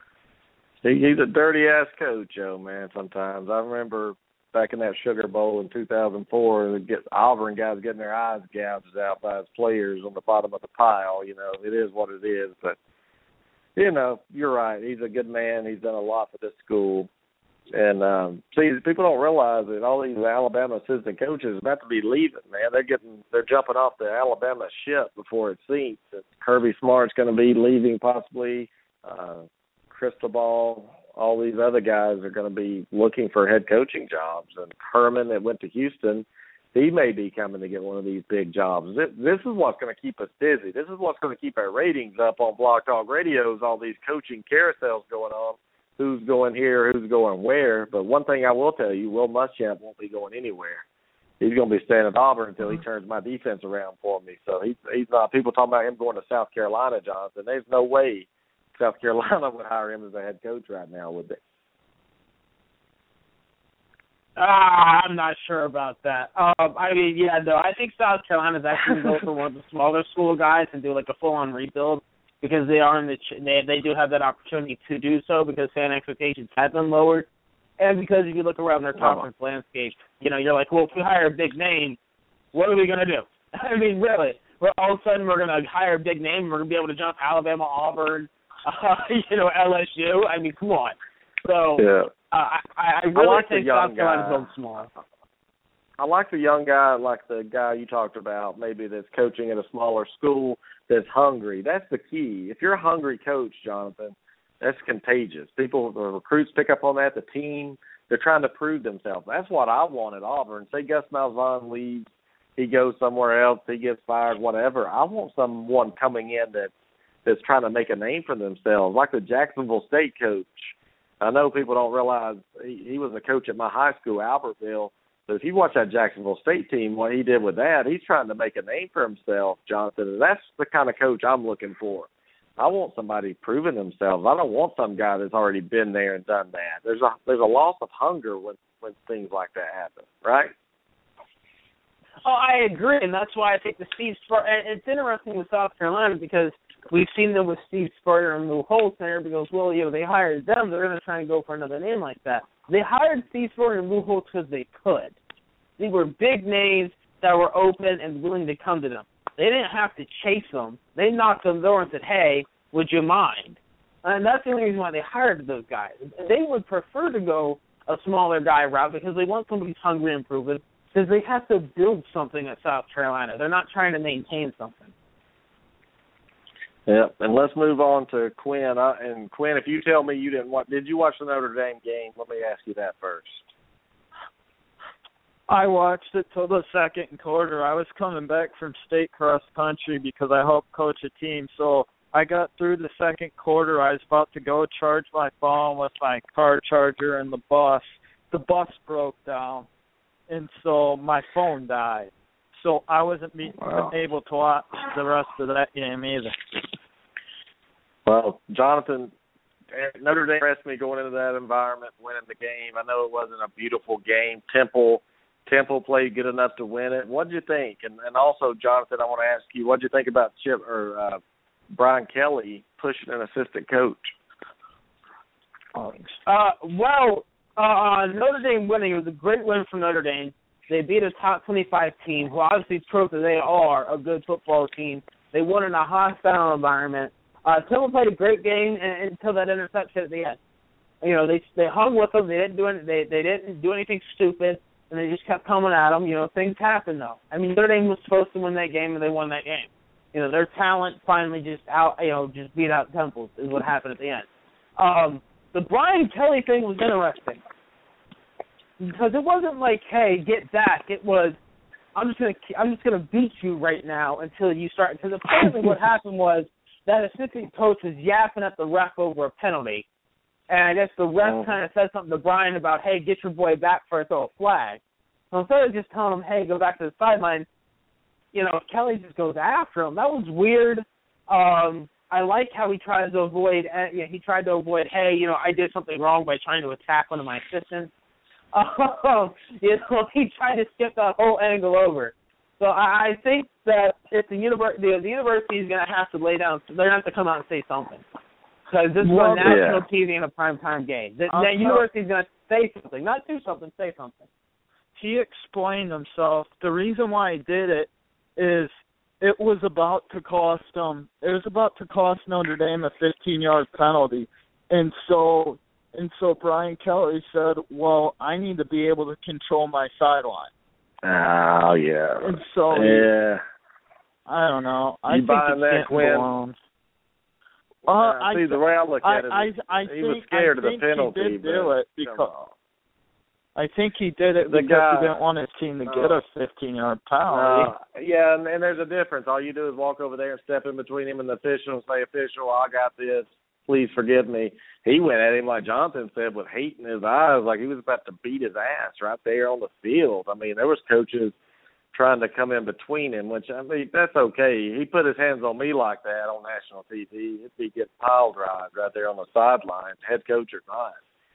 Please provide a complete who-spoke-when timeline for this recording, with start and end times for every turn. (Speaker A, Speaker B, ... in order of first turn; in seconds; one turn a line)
Speaker A: 0.8-12.8
Speaker A: 13.8-17.1
Speaker A: 17.7-50.8
Speaker A: 51.4-61.4
Speaker B: 64.3-77.3
Speaker B: 77.8-82.0
Speaker A: 79.0-79.2
Speaker B: 82.5-94.9
Speaker A: 91.8-92.1
Speaker A: 93.1-94.5
Speaker A: 96.0-112.0
Speaker A: 112.6-116.7
Speaker A: 117.2-140.5
Speaker B: 142.2-155.1
Speaker B: 155.8-174.9
Speaker A: 176.9-183.4
Speaker C: 185.5-199.7
Speaker C: 200.3-206.6
Speaker A: 203.6-203.9
Speaker A: 208.1-209.1
Speaker A: 209.7-221.2
Speaker A: 221.7-224.1
Speaker C: 225.7-226.2
Speaker B: 226.2-240.4
Speaker B: 241.0-254.2
Speaker B: 254.8-257.4
Speaker B: 258.8-261.4
Speaker B: 261.9-269.9
Speaker B: 270.5-274.8
Speaker A: 271.2-271.5
Speaker B: 275.3-277.5
Speaker B: 278.3-287.9
Speaker B: 288.5-298.0
Speaker B: 298.7-304.3
Speaker C: 299.0-299.5
Speaker A: 299.4-299.8
Speaker C: 301.3-301.8
Speaker C: 304.9-320.5
Speaker A: 321.0-323.4
Speaker C: 322.2-323.1
Speaker C: 324.3-326.5
Speaker A: 325.1-326.2
Speaker C: 327.9-332.3
Speaker A: 327.9-332.5
Speaker C: 333.6-337.7
Speaker A: 334.4-335.1
Speaker A: 335.9-336.2
Speaker A: 337.3-351.3
Speaker A: 351.9-361.0